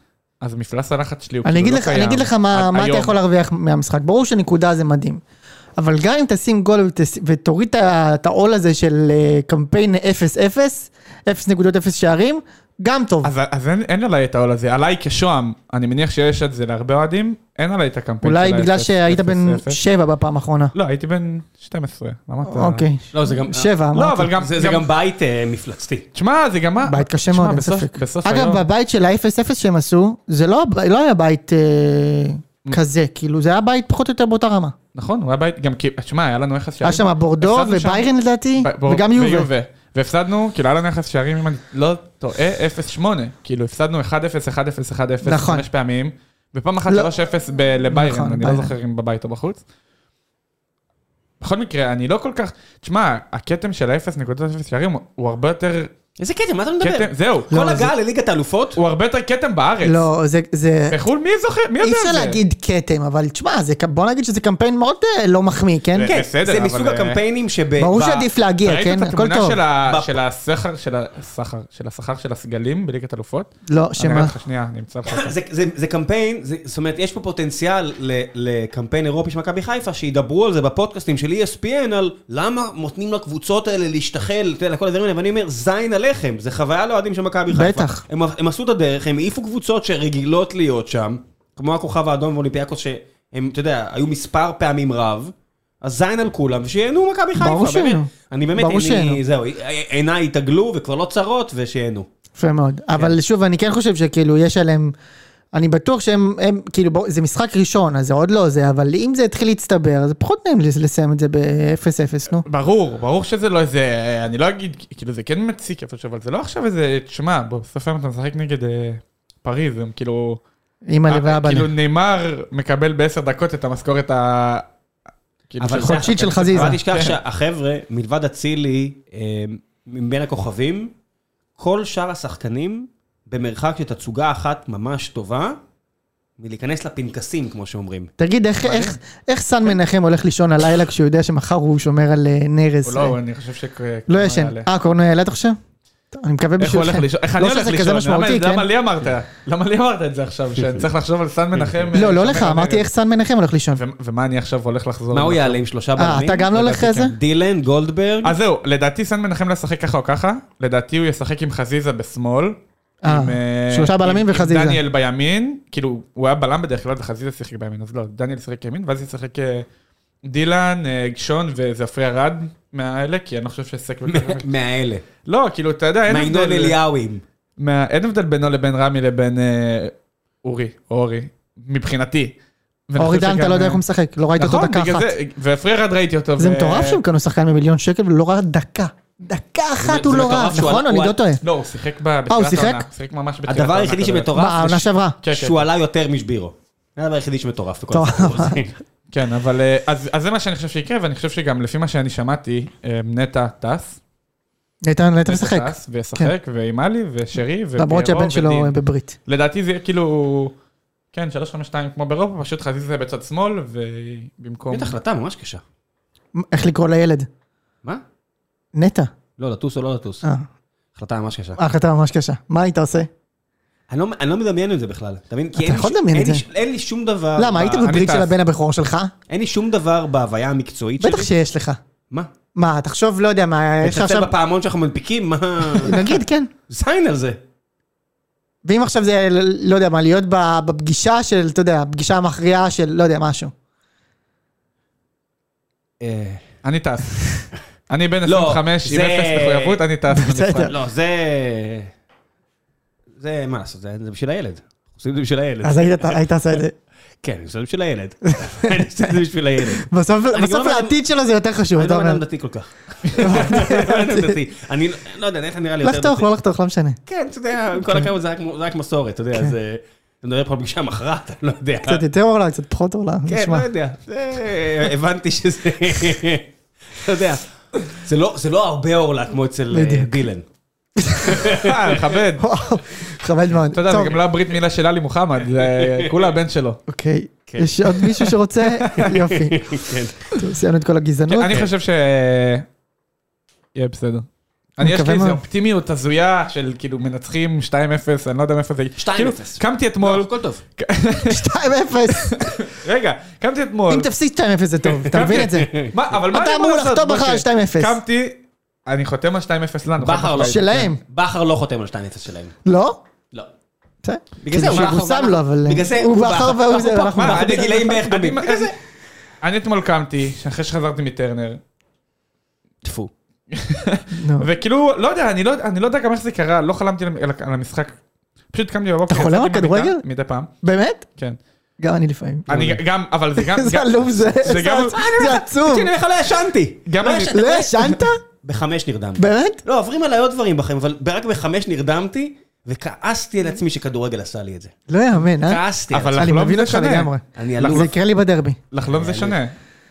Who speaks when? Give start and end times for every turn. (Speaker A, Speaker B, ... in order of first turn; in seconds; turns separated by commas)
Speaker A: 0.4-3.2, Speaker B: 1.4-5.2, Speaker B: 5.8-13.3, Speaker A: 13.2-19.8, Speaker B: 18.2-20.7, Speaker A: 20.8-22.9, Speaker B: 22.5-24.3, Speaker C: 23.1-23.7, Speaker A: 23.9-24.9, Speaker C: 24.4-26.1, Speaker A: 26.1-28.6, Speaker B: 26.9-34.8, Speaker A: 34.9-49.6, Speaker B: 36.8-39.5, Speaker B: 45.2-45.7, Speaker B: 47.9-48.7, Speaker A: 51.4-55.9, Speaker C: 56.2-58.8, Speaker A: 56.8-57.9, Speaker B: 57.5-57.9, Speaker A: 58.8-60.0, Speaker B: 59.8-61.0, Speaker A: 60.9-62.4, Speaker B: 61.8-66.1, Speaker A: 65.9-67.2, Speaker C: 66.0-68.3, Speaker B: 67.8-69.6, Speaker A: 68.6-75.3, Speaker C: 69.8-70.1, Speaker B: 73.7-74.3, Speaker C: 75.1-102.1, Speaker B: 87.5-88.0, Speaker B: 97.4-99.2, Speaker B: 102.4-104.9, Speaker B: 105.5-112.5, Speaker A: 112.4-120.4, Speaker B: 120.9-121.7, Speaker A: 121.1-124.7, Speaker A: 125.5-127.2, Speaker C: 125.6-130.9, Speaker B: 125.7-126.8, Speaker C: 131.6-135.6, Speaker C: 136.4-138.1, Speaker B: 138.2-143.2, Speaker A: 138.6-139.0, Speaker A: 142.8-144.7, Speaker B: 144.1-145.6, Speaker B: 146.1-148.7, Speaker A: 146.6-152.9, Speaker C: 151.6-151.9, Speaker B: 151.9-153.8, Speaker A: 153.7-155.6, Speaker C: 155.1-158.4, Speaker B: 156.0-157.2, Speaker A: 156.5-157.1, Speaker A: 158.2-169.7, Speaker B: 163.0-164.8, Speaker A: 170.2-174.5, Speaker C: 174.1-175.1, Speaker A: 175.2-176.8, Speaker C: 176.1-177.2, Speaker A: 177.6-182.4, Speaker A: 182.9-183.8, Speaker B: 183.0-185.1, Speaker A: 184.4-187.0, Speaker B: 186.4-191.4, Speaker C: 189.8-191.2, Speaker A: 191.4-194.3, Speaker B: 192.3-192.9, Speaker C: 193.4-198.7, Speaker B: 194.3-195.2, Speaker A: 195.2-195.6, Speaker B: 197.9-198.6, Speaker A: 199.1-204.0, Speaker B: 204.8-206.3, Speaker A: 205.3-208.7, Speaker B: 207.8-209.2, Speaker A: 209.3-210.6, Speaker A: 211.1-215.0, Speaker C: 214.7-215.6, Speaker B: 216.4-217.3, Speaker B: 218.7-219.1, Speaker C: 219.4-220.2, Speaker C: 220.9-221.6, Speaker B: 221.6-223.1, Speaker C: 223.9-227.9, Speaker B: 225.6-226.4, Speaker B: 227.4-229.1, Speaker A: 227.8-228.3, Speaker C: 229.3-231.3, Speaker B: 231.0-231.8, Speaker B: 232.6-234.3, Speaker C: 233.8-237.4, Speaker B: 235.7-236.5, Speaker B: 238.7-243.5, Speaker C: 246.0-246.5, Speaker A: 246.6-250.7, Speaker C: 248.3-249.8, Speaker B: 250.1-250.7, Speaker C: 250.7-251.9, Speaker C: 253.2-256.2, Speaker B: 255.6-256.7, Speaker C: 257.2-261.0, Speaker B: 258.3-259.1, Speaker B: 259.8-262.2, Speaker C: 261.7-266.3, Speaker B: 263.2-264.4, Speaker B: 265.8-267.0, Speaker C: 267.1-272.0, Speaker B: 267.8-268.1, Speaker B: 271.9-273.7, Speaker C: 273.3-280.4, Speaker B: 279.7-280.2, Speaker B: 281.0-281.5, Speaker C: 281.2-282.2, Speaker A: 281.5-282.4, Speaker B: 282.4-284.2, Speaker A: 283.7-286.8, Speaker C: 285.6-286.1, Speaker B: 286.9-289.6, Speaker C: 287.5-288.2, Speaker C: 288.9-290.3, Speaker B: 290.3-291.6, Speaker A: 291.3-292.6, Speaker A: 293.7-294.3, Speaker A: 294.8-301.5, Speaker B: 294.8-295.4, Speaker C: 299.0-300.6, Speaker B: 301.3-302.6, Speaker A: 302.1-304.1, Speaker B: 303.9-305.7, Speaker C: 304.9-305.9, Speaker A: 305.1-310.9, Speaker B: 306.3-308.0, Speaker C: 310.0-312.6, Speaker B: 310.4-311.0, Speaker B: 312.6-313.0, Speaker B: 314.0-317.7, Speaker C: 314.4-318.7, Speaker A: 314.7-314.9, Speaker A: 317.1-318.7, Speaker A: 319.4-321.6, Speaker C: 322.8-323.1, Speaker A: 323.5-327.9, Speaker B: 324.1-324.5, Speaker A: 328.5-330.5, Speaker B: 329.1-330.0, Speaker B: 330.6-331.1, Speaker B: 331.8-332.7, Speaker C: 332.5-332.8, Speaker A: 332.5-335.0, Speaker B: 333.4-335.9, Speaker C: 334.6-337.7, Speaker A: 336.9-338.0, Speaker B: 337.3-338.2, Speaker C: 338.4-344.7, Speaker B: 339.2-339.6, Speaker B: 344.9-345.6, Speaker C: 345.4-346.3, Speaker A: 345.9-347.9, Speaker B: 346.2-348.6, Speaker C: 347.4-347.9, Speaker A: 348.7-349.5, Speaker C: 348.8-349.4